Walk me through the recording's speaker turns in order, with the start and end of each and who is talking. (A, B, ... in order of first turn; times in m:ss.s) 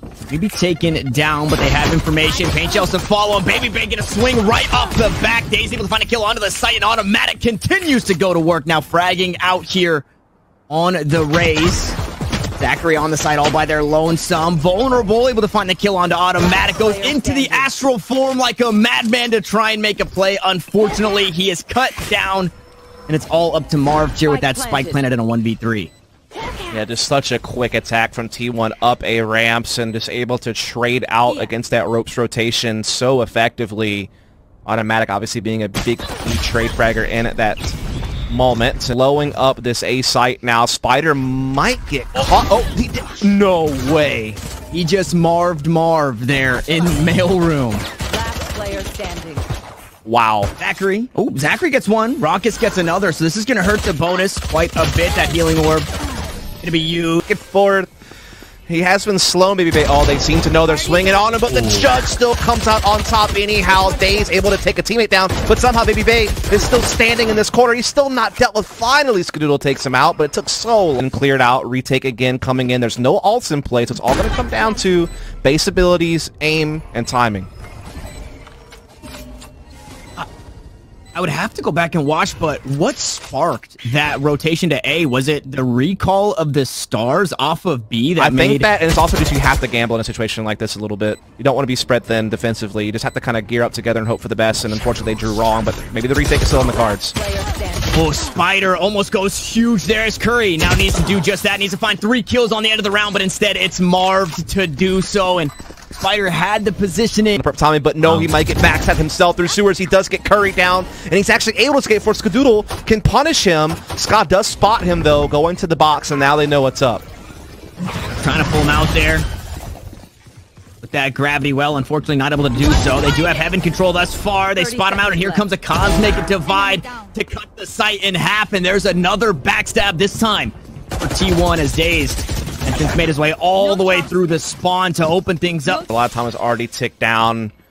0:00.3-0:10.0 A
0:10.7-0:12.0 A
0:12.6-0:22.5 A
0:16.4-0:17.7 B
0:23.1-0:25.9 A
0:24.2-0:25.0 B
0:26.7-0:34.1 C
0:34.6-0:37.8 C
0:38.3-0:44.4 C
0:44.7-0:47.8 A
0:48.1-0:49.5 B
0:50.0-0:50.5 C
0:50.6-0:55.9 A
0:56.6-0:57.2 A
0:57.2-0:57.9 C
0:58.7-1:17.5 C
1:21.1-1:28.7 A
1:28.2-1:37.1 C
1:37.1-1:38.0 B
1:37.9-1:47.4 A
1:47.4-1:57.0 C
1:48.0-1:48.3 A
1:58.2-1:59.3 A
2:00.8-2:15.9 A
2:04.5-2:05.5 B
2:13.8-2:14.3 B
2:15.9-2:17.5 C